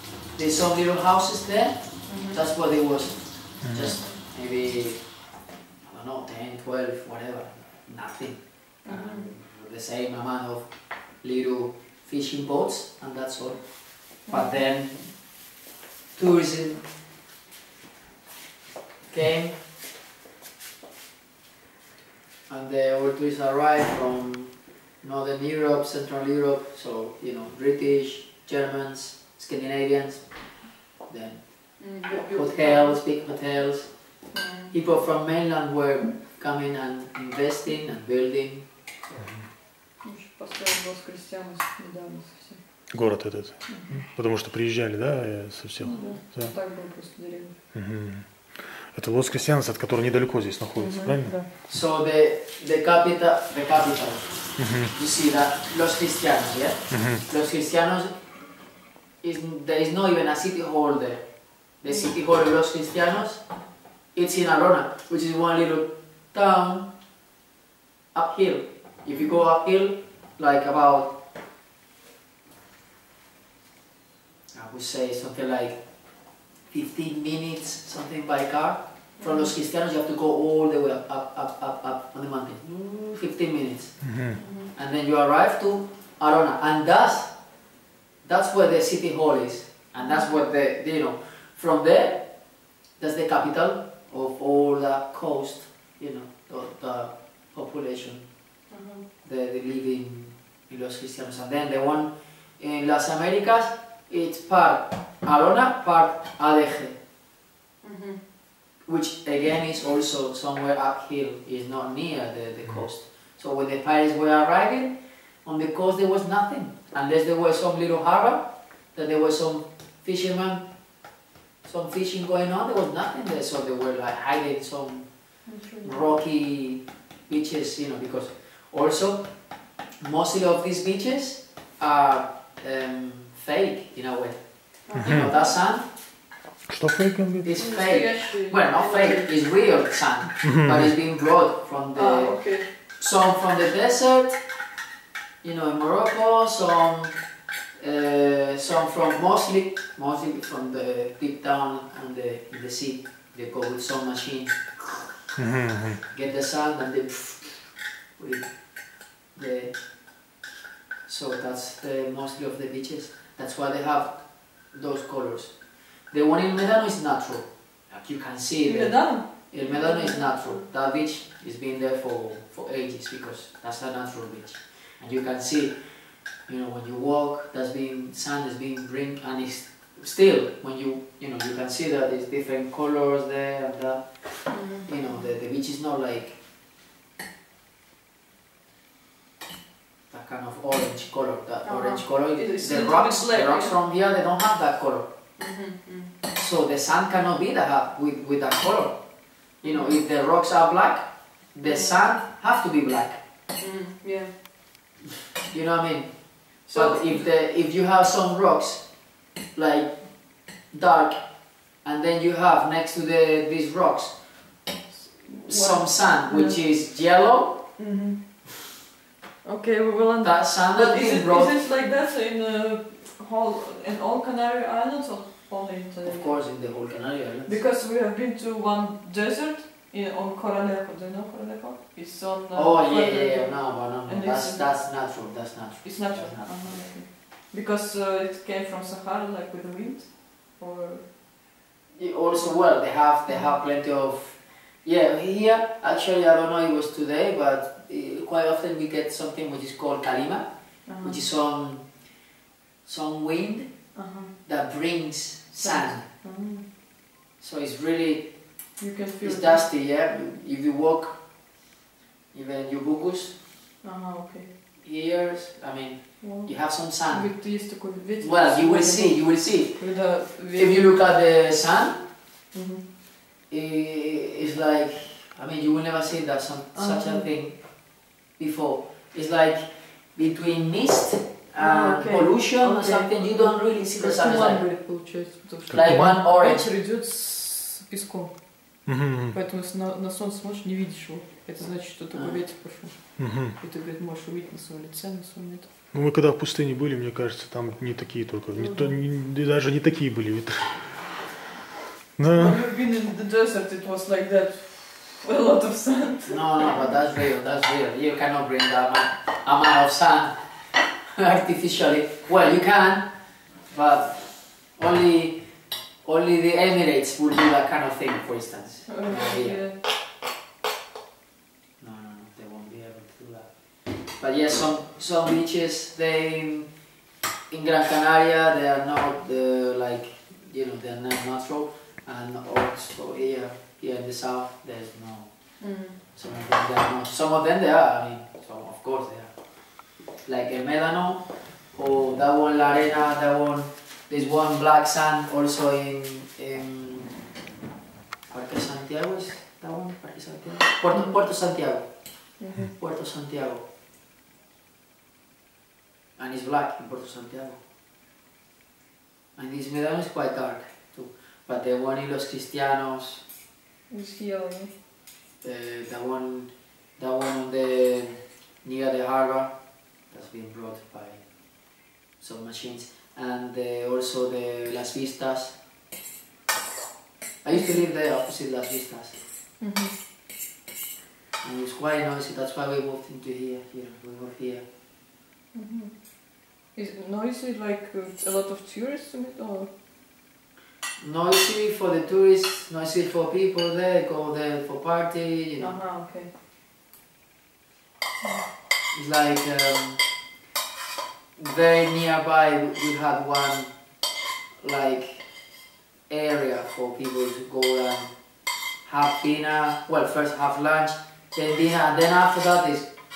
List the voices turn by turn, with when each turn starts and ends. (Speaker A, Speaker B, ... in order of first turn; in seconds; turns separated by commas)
Speaker A: 0.3-5.0, Speaker B: 2.1-2.4, Speaker C: 3.6-4.0, Speaker B: 3.8-4.1, Speaker A: 5.8-10.7, Speaker B: 8.8-9.3, Speaker A: 11.2-15.1, Speaker B: 14.3-14.6, Speaker A: 16.1-16.8, Speaker A: 19.1-19.6, Speaker A: 22.5-30.2, Speaker A: 31.0-31.4, Speaker B: 31.8-33.0, Speaker A: 32.1-33.9, Speaker B: 34.3-34.7, Speaker A: 34.7-39.3, Speaker B: 40.0-42.6, Speaker C: 42.9-46.5, Speaker B: 43.6-44.1, Speaker B: 45.8-47.5, Speaker C: 47.7-51.4, Speaker B: 50.8-51.5, Speaker A: 51.7-54.4, Speaker C: 54.6-54.9, Speaker A: 54.9-58.1, Speaker C: 56.9-57.2, Speaker A: 59.2-61.2, Speaker A: 61.8-63.4, Speaker B: 61.9-62.1, Speaker A: 64.1-66.9, Speaker A: 68.1-71.1, Speaker B: 69.1-69.4, Speaker A: 74.5-75.8, Speaker A: 76.7-84.0, Speaker B: 79.2-79.5, Speaker C: 84.0-84.4, Speaker B: 84.3-84.7, Speaker A: 84.7-87.3, Speaker A: 88.2-92.2, Speaker B: 90.0-90.3, Speaker A: 93.0-98.2, Speaker B: 98.7-99.0, Speaker A: 99.2-107.0, Speaker B: 107.8-108.2, Speaker A: 108.8-118.4, Speaker A: 118.9-120.6, Speaker A: 121.6-125.1, Speaker B: 125.5-126.1, Speaker A: 125.8-129.3, Speaker A: 130.0-135.8, Speaker B: 134.9-135.5, Speaker C: 134.9-135.3, Speaker C: 136.7-137.5, Speaker A: 137.4-142.4, Speaker B: 137.5-139.3, Speaker C: 140.4-140.9, Speaker B: 141.9-142.7, Speaker A: 143.0-144.4, Speaker A: 145.4-147.1, Speaker A: 147.8-154.7, Speaker C: 155.4-156.0, Speaker A: 156.1-158.5, Speaker A: 159.3-159.8, Speaker A: 161.1-175.8, Speaker B: 168.6-170.6, Speaker A: 176.4-186.3, Speaker B: 184.5-185.1, Speaker A: 190.1-195.1, Speaker B: 191.6-193.7, Speaker B: 195.4-196.1, Speaker A: 196.3-199.0, Speaker A: 199.6-203.2, Speaker B: 199.7-200.0, Speaker B: 201.6-202.1, Speaker B: 203.6-204.3, Speaker A: 205.5-208.9, Speaker B: 206.7-207.3, Speaker A: 209.5-211.2, Speaker A: 211.8-214.2, Speaker B: 214.8-216.8, Speaker A: 215.4-217.7, Speaker B: 217.8-218.2, Speaker B: 219.4-226.6, Speaker A: 220.2-221.5, Speaker A: 226.0-227.6, Speaker B: 227.4-234.9, Speaker A: 232.5-236.9, Speaker B: 235.8-241.1, Speaker A: 241.9-250.5, Speaker B: 243.3-243.5, Speaker B: 250.8-251.2, Speaker A: 251.0-251.9, Speaker A: 252.8-253.7, Speaker B: 253.9-254.4, Speaker A: 254.4-256.1, Speaker B: 255.6-256.6, Speaker A: 257.4-258.3, Speaker B: 258.8-259.6, Speaker A: 259.2-261.2, Speaker A: 262.3-263.4, Speaker B: 263.8-264.5, Speaker A: 264.8-267.4, Speaker B: 266.2-270.8, Speaker A: 268.2-272.0, Speaker B: 272.5-272.8, Speaker A: 273.5-277.7, Speaker B: 276.7-277.3, Speaker A: 278.3-284.7, Speaker B: 281.6-295.7, Speaker C: 285.7-286.2, Speaker A: 285.7-286.7, Speaker C: 288.9-289.3, Speaker A: 292.1-292.4, Speaker C: 293.2-293.6, Speaker C: 295.9-301.0, Speaker B: 298.5-299.1, Speaker C: 302.2-302.6, Speaker B: 302.3-306.9, Speaker A: 306.3-310.4, Speaker A: 311.1-313.1, Speaker A: 313.6-315.4, Speaker A: 316.0-319.6, Speaker B: 318.9-319.8, Speaker A: 321.8-323.5, Speaker A: 324.1-326.7, Speaker A: 327.5-335.3, Speaker B: 335.6-336.0, Speaker A: 336.1-339.3, Speaker A: 340.2-347.1, Speaker A: 348.3-351.9, Speaker B: 350.9-351.2, Speaker B: 352.4-352.7, Speaker A: 352.5-353.6, Speaker A: 356.2-357.6, Speaker A: 359.4-363.2, Speaker B: 363.9-364.7, Speaker A: 365.4-369.5, Speaker A: 370.1-371.2, Speaker A: 372.2-375.5, Speaker A: 377.4-379.1, Speaker B: 377.5-377.8, Speaker B: 379.6-379.9, Speaker A: 381.4-384.6, Speaker B: 385.5-389.7, Speaker A: 391.0-395.7, Speaker B: 395.6-396.3, Speaker A: 398.9-400.0, Speaker A: 401.4-403.7, Speaker A: 404.6-405.2, Speaker A: 406.1-408.1, Speaker A: 408.8-412.9